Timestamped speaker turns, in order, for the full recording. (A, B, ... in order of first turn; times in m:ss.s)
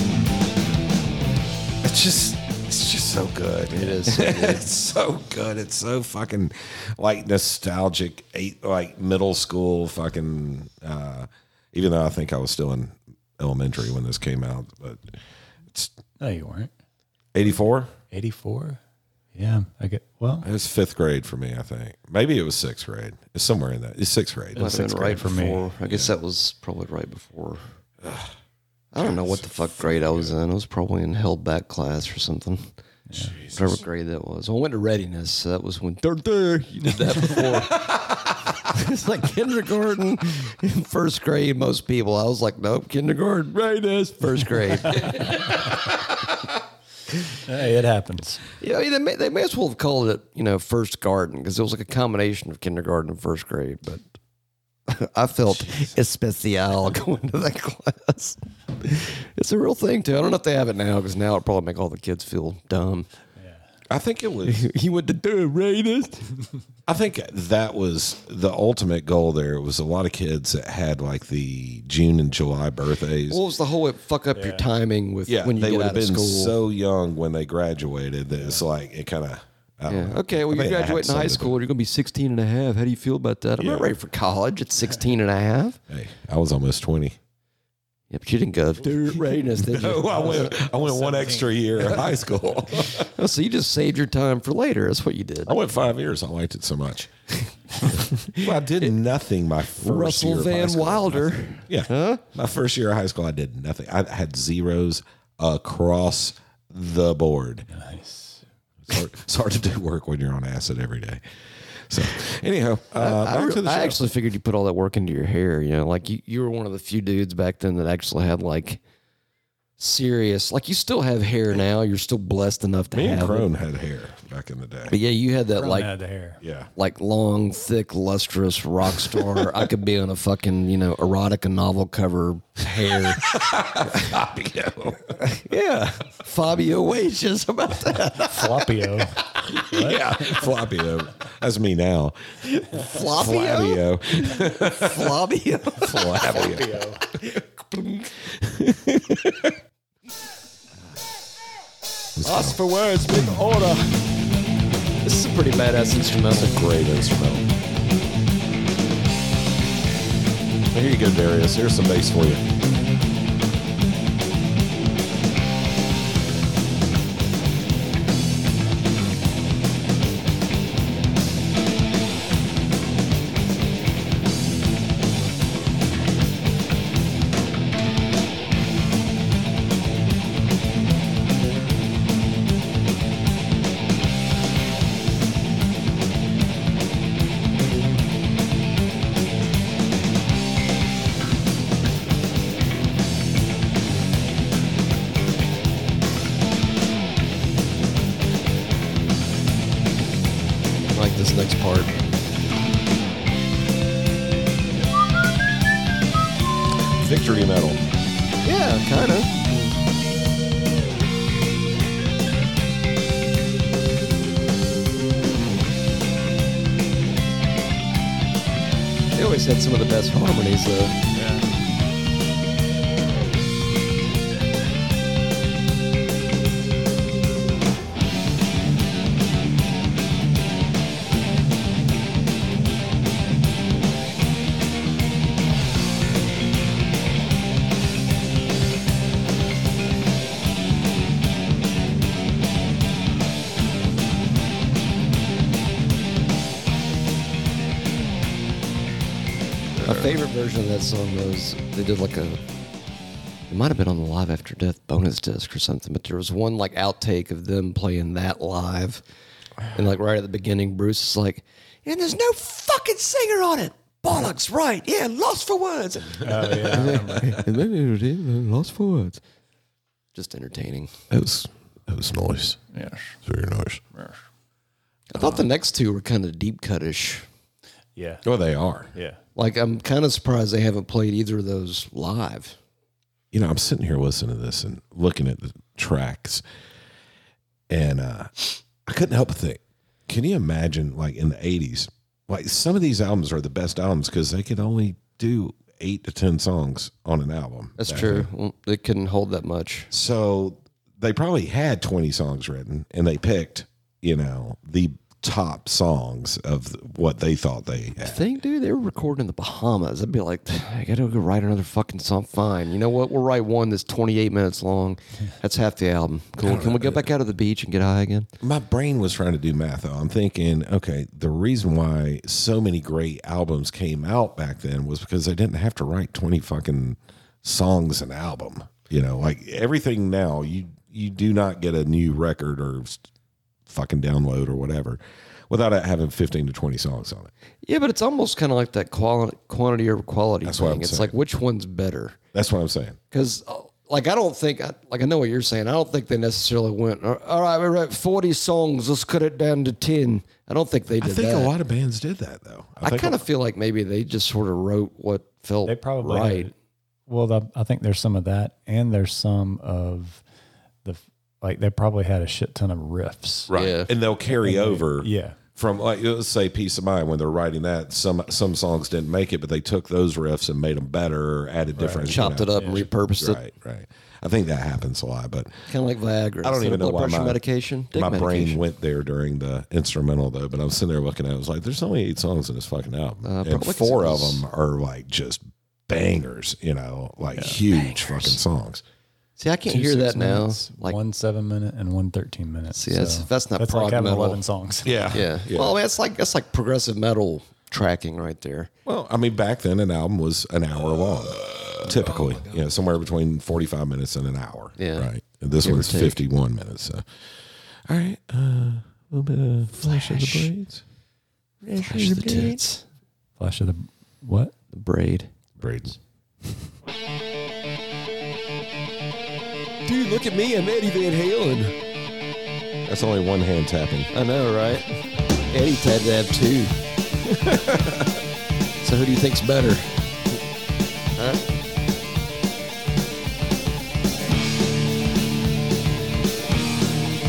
0:01.8-0:15.2 A
0:03.7-0:04.7 B
0:16.2-0:16.7 C
0:17.3-0:17.9 A
0:18.1-0:18.8 C
0:19.4-0:20.5 C
0:20.4-0:24.7 A
0:24.6-0:25.6 C
0:24.6-0:27.6 B
0:28.0-0:28.3 A
0:28.9-0:32.7 B
0:29.0-0:30.3 A
0:33.1-0:33.4 C
0:33.2-0:33.8 A
0:33.5-0:38.0 B
0:37.8-0:38.6 A
0:38.6-0:45.7 B
0:47.4-0:48.4 C
0:48.6-0:54.0 B
0:54.9-1:03.1 B
0:55.6-0:55.9 A
1:03.9-1:04.7 A
1:04.4-1:06.3 B
1:06.9-1:13.4 A
1:13.3-1:16.6 B
1:14.4-1:14.7 C
1:15.3-1:21.6 A
1:19.9-1:25.8 B
1:23.6-1:23.9 A
1:25.9-1:27.2 A
1:28.1-1:30.7 B
1:29.6-1:33.1 A
1:30.3-1:32.0 C
1:33.0-1:35.6 B
1:35.4-1:37.1 A
1:37.9-1:47.7 A
1:37.9-1:38.9 B
1:39.8-1:42.2 B
1:47.7-1:48.4 C
1:48.9-1:54.0 A
1:53.0-1:58.8 B
1:59.8-2:03.5 B
2:02.9-2:05.0 A
2:04.9-2:05.9 B
2:05.6-2:06.4 C
2:06.4-2:06.7 A
2:06.8-2:13.4 B
2:12.8-2:15.2 A
2:15.2-2:18.9 B
2:18.2-2:20.5 C
2:19.4-2:25.2 A
2:22.7-2:26.5 B
2:25.8-2:27.0 A
2:26.2-2:27.0 C
2:27.2-2:28.1 B
2:28.2-2:29.6 A
2:32.2-2:32.6 A
2:32.2-2:33.9 B
2:35.0-2:36.6 B
2:36.3-2:37.5 A
2:40.7-2:42.4 A
3:20.9-3:21.9 B
3:27.0-3:27.8 A
3:28.4-3:29.5 B
3:39.1-3:41.0 B
3:41.2-3:41.4 C
4:09.8-4:10.2 A
4:09.8-4:12.4 B
4:13.5-4:19.0 B
4:19.7-4:29.2 B
4:26.2-4:27.4 C
4:30.1-4:30.9 B
4:31.1-4:32.6 A
4:32.7-4:33.2 C
4:33.2-4:33.8 A
4:33.9-4:34.2 C
4:35.1-4:37.3 B
4:38.0-4:38.2 C
4:38.2-4:38.9 A
4:38.9-4:39.2 C
4:39.4-4:42.6 B
4:43.3-4:46.4 A
4:47.7-4:58.3 A
4:57.8-4:59.9 B
4:59.9-5:08.3 A
5:08.0-5:18.3 B
5:16.4-5:17.1 A
5:18.4-5:33.1 A
5:33.7-5:37.3 A
5:37.6-5:42.2 B
5:40.4-5:41.2 A
5:42.3-5:43.0 A
5:43.1-5:51.5 B
5:51.0-5:53.3 A
5:52.8-5:56.5 B
5:55.6-5:56.5 C
5:57.1-6:00.2 C
6:00.8-6:03.5 C
6:03.5-6:15.7 A
6:03.5-6:03.9 B
6:04.3-6:05.4 C
6:11.8-6:12.9 C
6:12.1-6:13.4 B
6:15.7-6:18.6 B
6:16.4-6:17.4 A
6:17.9-6:28.8 A
6:23.2-6:24.4 B
6:27.4-6:27.6 C
6:27.7-6:28.4 B
6:29.4-6:31.0 B
6:29.7-6:35.1 C
6:32.7-6:34.4 B
6:34.8-6:35.8 A
6:35.1-6:38.7 B
6:38.8-6:47.0 A
6:44.8-6:45.1 B
6:45.6-6:46.2 B
6:47.9-6:50.8 A
6:49.8-6:50.5 B
6:51.6-6:52.8 B
6:51.8-6:52.5 A
6:53.4-6:54.5 C
6:54.7-6:55.3 B
6:55.6-6:56.0 A
6:59.8-7:01.8 B
7:02.9-7:04.1 A
7:04.1-7:04.9 B
7:05.5-7:06.8 B
7:07.3-7:08.2 A
7:08.8-7:10.0 B
7:11.2-7:11.4 B